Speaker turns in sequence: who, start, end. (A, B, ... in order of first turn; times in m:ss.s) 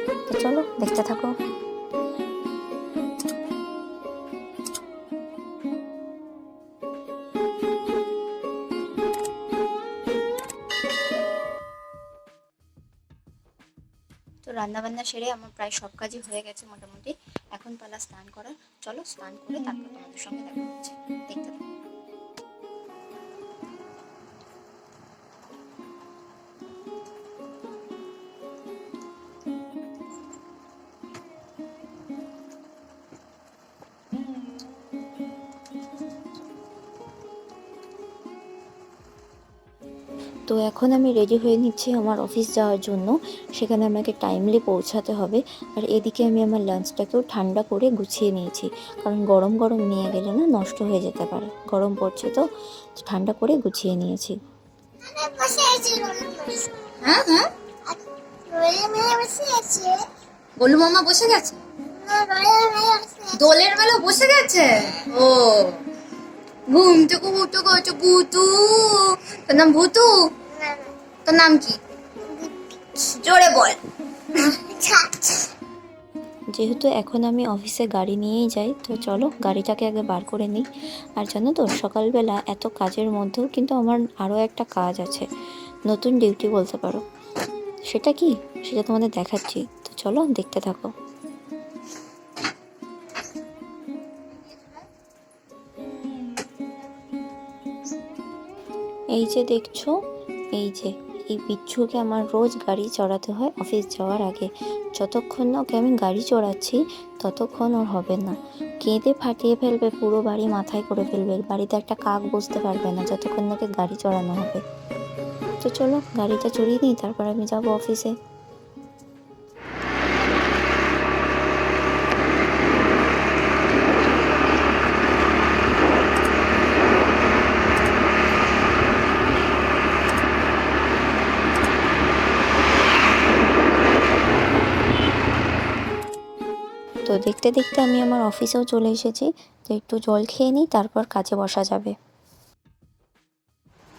0:00.3-0:01.3 A
0:14.4-0:21.6 A
0:40.5-0:52.4 A
0:53.0-0:54.4 A
0:55.0-0:57.0 B
0:57.0-0:57.5 C
0:57.9-1:00.1 B
1:00.6-1:01.6 C
1:01.7-1:03.5 B
1:03.3-1:05.8 C
1:06.7-1:10.4 C
1:10.5-1:10.9 B
1:11.3-1:11.8 C
1:12.2-1:12.5 B
1:13.0-1:13.8 C
1:14.3-1:15.5 B
1:16.5-1:25.3 A
1:25.9-1:27.0 A
1:27.9-1:30.9 A
1:39.1-1:40.0 A
1:40.6-1:54.6 A
1:55.6-1:58.1 A
2:17.1-2:22.0 A